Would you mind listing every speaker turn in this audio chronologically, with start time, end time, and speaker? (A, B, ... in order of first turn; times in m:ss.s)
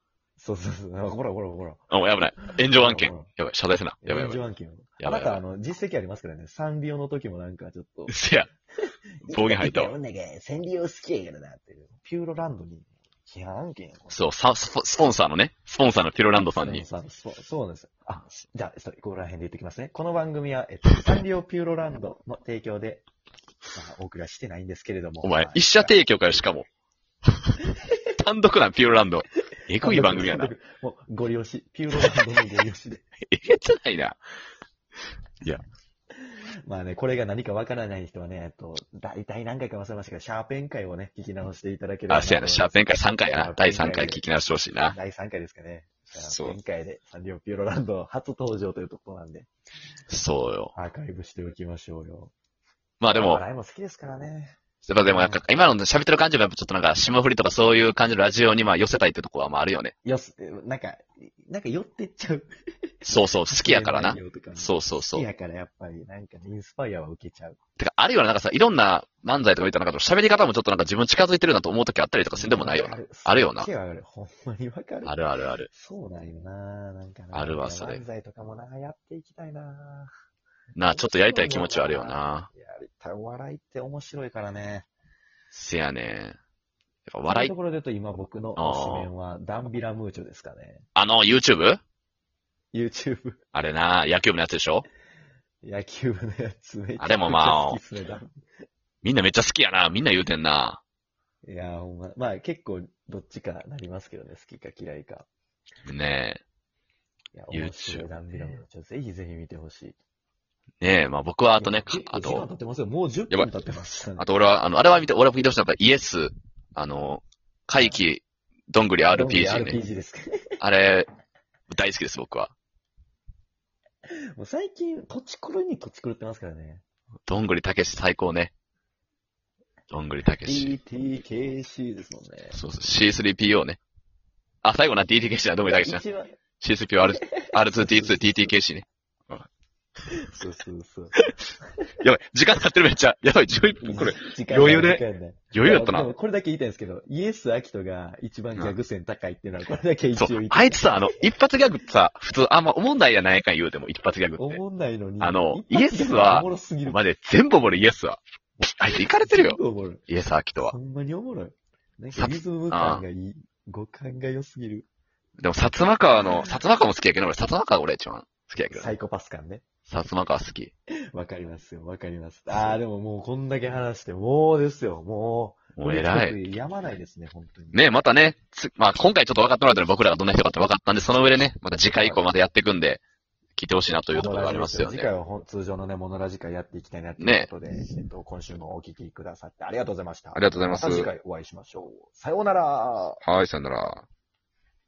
0:00.4-0:01.8 A
0:01.9-0:04.4 B
0:02.4-0:03.3 A
0:04.0-0:08.2 A
0:05.0-0:05.4 B
0:08.1-0:08.5 B
0:09.2-0:14.2 A
0:09.3-0:09.9 B
0:14.1-0:16.8 B
0:16.4-0:23.0 A
0:23.7-0:26.0 A
0:25.2-0:26.7 B
0:28.2-0:30.5 B
0:29.8-0:33.0 A
0:33.3-0:34.2 B
0:36.2-0:44.2 A
0:42.1-0:45.0 B
0:44.9-0:49.5 A
0:46.2-0:46.6 B
0:50.1-0:50.7 B
0:50.7-0:52.3 A
0:53.0-0:53.4 B
0:53.1-0:55.4 A
0:54.8-0:59.9 B
1:00.0-1:02.5 A
1:03.0-1:05.3 B
1:03.5-1:07.6 A
1:07.8-1:13.7 B
1:12.3-1:15.1 A
1:15.0-1:15.7 B
1:15.7-1:20.1 A
1:17.3-1:18.0 B
1:20.8-1:22.5 B
1:20.9-1:24.9 A
1:25.5-1:26.4 B
1:27.1-1:27.5 B
1:27.3-1:30.8 A
1:28.6-1:29.1 B
1:30.9-1:31.8 B
1:32.7-1:33.4 A
1:33.5-1:34.9 B
1:35.6-1:38.4 A
1:37.0-1:37.8 B
1:39.0-1:40.8 B
1:41.4-1:45.3 A
1:45.8-1:46.4 B
1:47.3-1:50.0 A
1:47.5-1:48.6 B
1:50.8-1:52.5 B
1:51.6-1:54.3 A
1:54.2-1:59.8 B
1:59.1-2:00.6 A
2:00.6-2:01.1 B
2:01.7-2:02.5 B
2:04.3-2:06.8 A
2:07.3-2:08.5 B
2:09.9-2:10.8 B
2:10.4-2:12.6 A
2:12.5-2:13.8 B
2:14.6-2:16.0 B
2:15.6-2:16.4 A
2:16.6-2:19.4 B
2:17.1-2:18.5 A
2:20.1-2:21.1 A
2:22.0-2:26.1 B
2:23.8-2:31.2 A
2:30.2-2:34.6 B
2:34.4-2:37.0 A
2:35.2-2:40.7 B
2:39.2-2:40.0 A
2:40.6-2:44.9 A
2:42.1-2:43.0 B
2:45.4-2:48.9 B
2:48.7-2:49.6 A
2:49.9-2:50.7 B
2:51.1-2:57.8 A
2:55.8-2:56.4 B
2:57.7-3:03.0 B
3:01.9-3:02.3 A
3:03.6-3:05.1 B
3:04.1-3:13.2 A
3:07.2-3:07.5 B
3:10.3-3:11.1 B
3:13.2-3:14.0 B